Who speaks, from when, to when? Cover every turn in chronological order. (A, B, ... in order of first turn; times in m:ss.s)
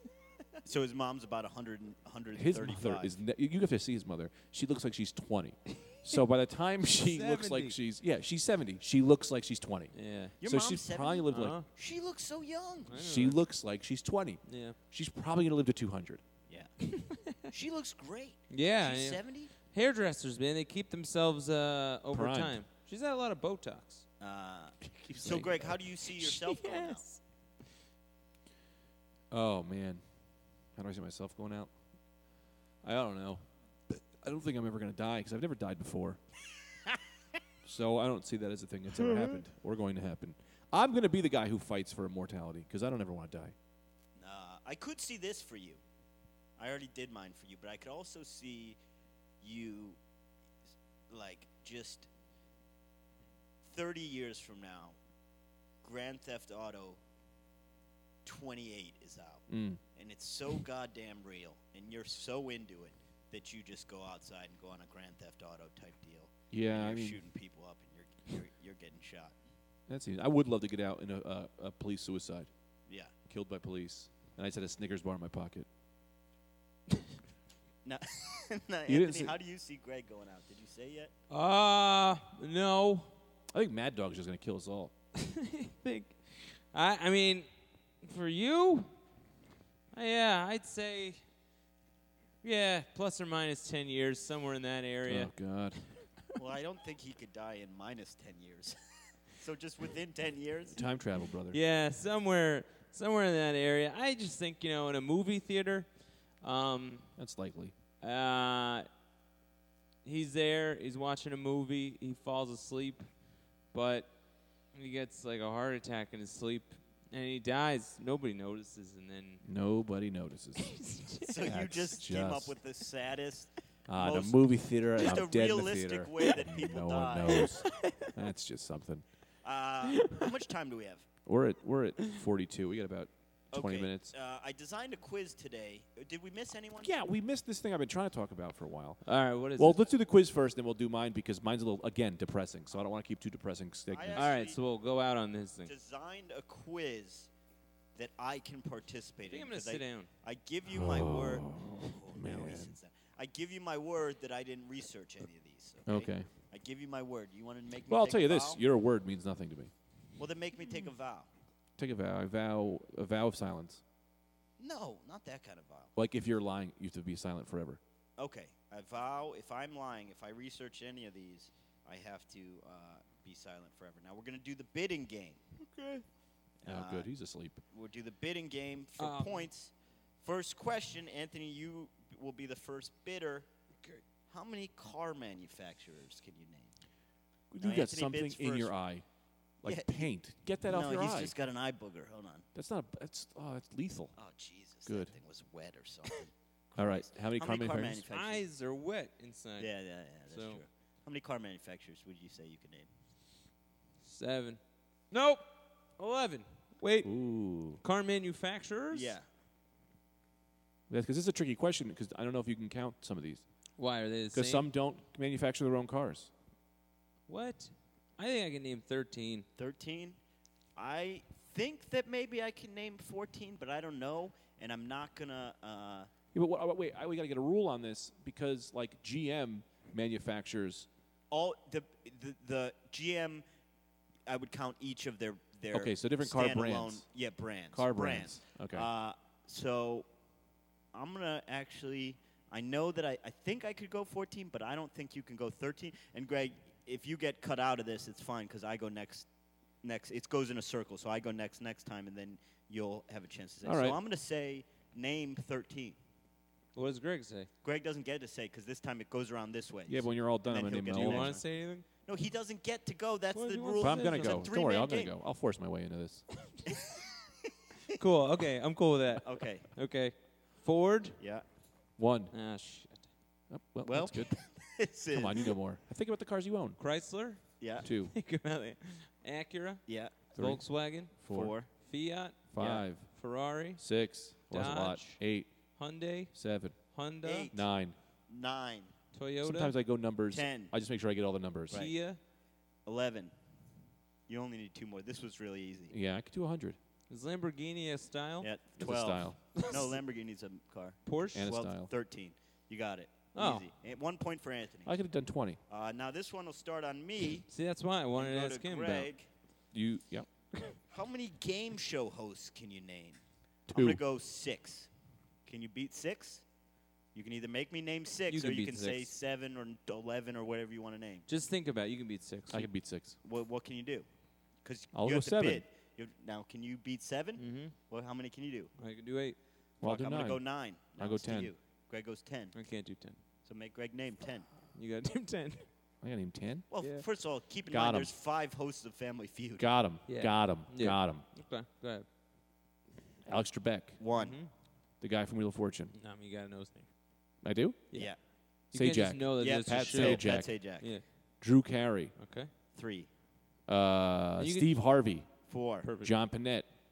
0:00.6-0:03.2 A
0:02.3-0:11.6 B
0:07.0-0:07.8 C
0:09.9-0:10.3 C
0:10.4-0:13.0 A
0:11.3-0:11.6 C
0:12.9-0:13.4 C
0:13.0-0:16.2 B
0:14.4-0:14.8 C
0:16.8-0:17.4 C
0:17.5-0:19.5 A
0:18.5-0:24.0 C
0:22.1-0:22.6 B
0:24.2-0:27.0 A
0:24.8-0:25.8 B
0:26.2-0:27.2 C
0:29.3-0:30.0 B
0:30.8-0:31.7 B
0:32.8-0:36.2 B
0:37.6-0:43.5 B
0:44.2-0:45.8 A
0:46.6-0:48.8 A
0:49.4-0:50.0 A
0:51.1-0:52.1 A
0:53.6-0:55.0 A
0:55.8-0:57.0 A
0:58.2-0:59.4 A
0:59.5-0:59.8 B
0:59.9-1:09.3 A
1:06.5-1:07.2 B
1:09.9-1:12.5 B
1:13.3-1:15.6 B
1:17.8-1:21.1 A
1:18.9-1:19.3 B
1:21.3-1:23.1 C
1:23.5-1:24.9 B
1:25.1-1:27.5 C
1:28.0-1:28.9 C
1:29.9-1:31.2 C
1:32.4-1:35.3 C
1:35.1-1:35.8 B
1:36.4-1:40.8 A
1:40.7-1:41.6 B
1:41.5-1:47.1 C
1:47.2-1:47.7 B
1:48.0-1:48.9 C
1:50.0-1:53.1 C
1:53.7-1:54.1 C
1:54.7-1:59.4 C
1:59.4-2:00.8 B
2:00.6-2:01.3 C
2:01.2-2:04.4 A
2:01.4-2:02.5 B
2:03.9-2:09.0 B
2:05.0-2:07.6 A
2:09.4-2:11.1 A
2:09.9-2:10.3 C
2:11.2-2:14.1 B
2:13.5-2:16.9 A
2:16.8-2:19.0 B
2:19.0-2:19.8 C
2:19.6-2:24.3 B
2:23.9-2:24.6 A
2:24.2-2:25.7 C
2:25.6-2:27.3 A
2:27.9-2:38.6 A
2:29.2-2:30.1 C
2:30.7-2:32.7 B
2:35.8-2:36.3 B
2:37.9-2:39.7 B
2:40.2-2:41.3 A
2:41.8-2:43.8 B
2:44.6-2:45.9 A
2:46.0-2:47.8 B
2:48.2-2:55.4 A
2:55.6-2:56.0 C
2:56.6-2:57.1 A
2:56.6-2:57.6 B
2:57.7-3:03.5 A
2:59.0-2:59.5 C
3:04.2-3:06.7 A
3:07.5-3:09.0 B
3:07.6-3:08.7 A
3:09.6-3:11.3 B
3:09.6-3:10.1 A
3:10.6-3:12.4 A
3:12.5-3:14.2 B
3:14.2-3:18.4 A
3:14.8-3:15.1 B
3:16.7-3:18.0 B
3:18.1-3:19.7 C
3:19.6-3:22.9 A
3:20.3-3:20.6 C
3:24.0-3:24.6 C
3:25.1-3:25.4 C
3:26.0-3:27.1 C
3:27.0-3:27.8 B
3:27.8-3:29.1 C
3:28.9-3:29.2 A
3:30.9-3:33.4 B
3:33.8-3:34.7 C
3:34.3-3:36.3 B
3:37.3-3:39.4 C
3:39.6-3:40.2 A
3:40.8-3:46.1 A
3:46.3-3:50.9 B
3:51.3-3:53.4 A
3:54.2-4:00.1 A
3:55.7-3:57.0 B
3:57.7-3:58.9 B
4:00.9-4:09.3 A
4:09.8-4:16.0 A
4:13.6-4:14.0 B
4:16.7-4:17.5 C
4:17.6-4:21.4 A
4:19.9-4:21.3 B
4:20.9-4:21.8 C
4:22.0-4:25.1 A
4:23.3-4:24.5 C
4:23.8-4:26.2 B
4:26.7-4:27.2 A
4:27.9-4:31.2 C
4:29.2-4:29.7 A
4:31.2-4:31.4 A
4:32.0-4:32.3 B
4:32.3-4:33.1 C
4:33.5-4:34.4 B
4:33.8-4:35.5 A
4:35.1-4:36.8 B
4:36.8-4:43.8 C
4:37.6-4:37.8 A
4:37.8-4:38.1 B
4:39.9-4:40.2 A
4:40.3-4:41.5 B
4:41.3-4:41.7 A
4:42.5-4:45.5 B
4:44.5-4:45.2 C
4:45.8-4:46.3 C
4:46.3-4:46.8 B
4:46.9-4:47.5 C
4:47.2-4:47.7 A
4:47.5-4:48.0 B
4:48.3-4:48.9 A
4:49.1-4:49.7 C
4:49.4-4:51.8 B
4:50.3-4:50.7 A
4:51.7-4:52.2 C
4:52.8-4:53.3 A
4:54.3-4:55.9 A
4:55.9-4:56.8 B
4:57.1-4:58.5 C
4:58.4-5:04.9 A
4:58.8-4:59.4 B
4:59.5-4:59.9 C
5:01.0-5:01.4 C
5:01.3-5:01.9 B
5:03.3-5:03.7 C
5:04.8-5:05.6 B
5:05.7-5:07.4 A
5:07.5-5:09.1 C
5:08.2-5:09.3 A
5:09.7-5:10.3 B
5:10.9-5:14.9 A
5:13.7-5:14.0 B
5:15.4-5:16.4 A
5:17.1-5:21.2 A
5:18.3-5:19.1 C
5:21.3-5:22.7 C
5:22.5-5:23.2 B
5:23.2-5:24.0 A
5:24.6-5:28.7 A
5:24.9-5:25.6 B
5:27.4-5:27.7 C
5:28.8-5:29.4 C
5:29.8-5:31.5 B
5:29.8-5:32.5 A
5:32.5-5:33.2 C
5:33.4-5:34.5 A
5:34.7-5:35.7 C
5:36.0-5:36.6 B
5:36.7-5:39.7 A
5:36.8-5:37.0 C
5:37.7-5:38.1 B
5:39.6-5:41.2 B
5:40.0-5:42.0 C
5:43.2-5:44.0 B
5:44.0-5:44.4 A
5:44.1-5:44.5 C
5:45.0-5:45.9 B
5:45.9-5:46.9 C
5:47.4-5:47.9 B
5:47.9-5:48.2 A
5:48.7-5:51.0 C
5:48.7-5:50.5 B
5:49.4-5:50.9 A
5:51.4-5:52.1 B
5:52.2-5:52.5 C
5:52.7-5:53.1 A
5:53.7-5:55.3 B
5:54.4-5:54.7 C
5:55.5-5:55.9 A
5:55.8-5:56.1 C
5:56.0-5:56.6 B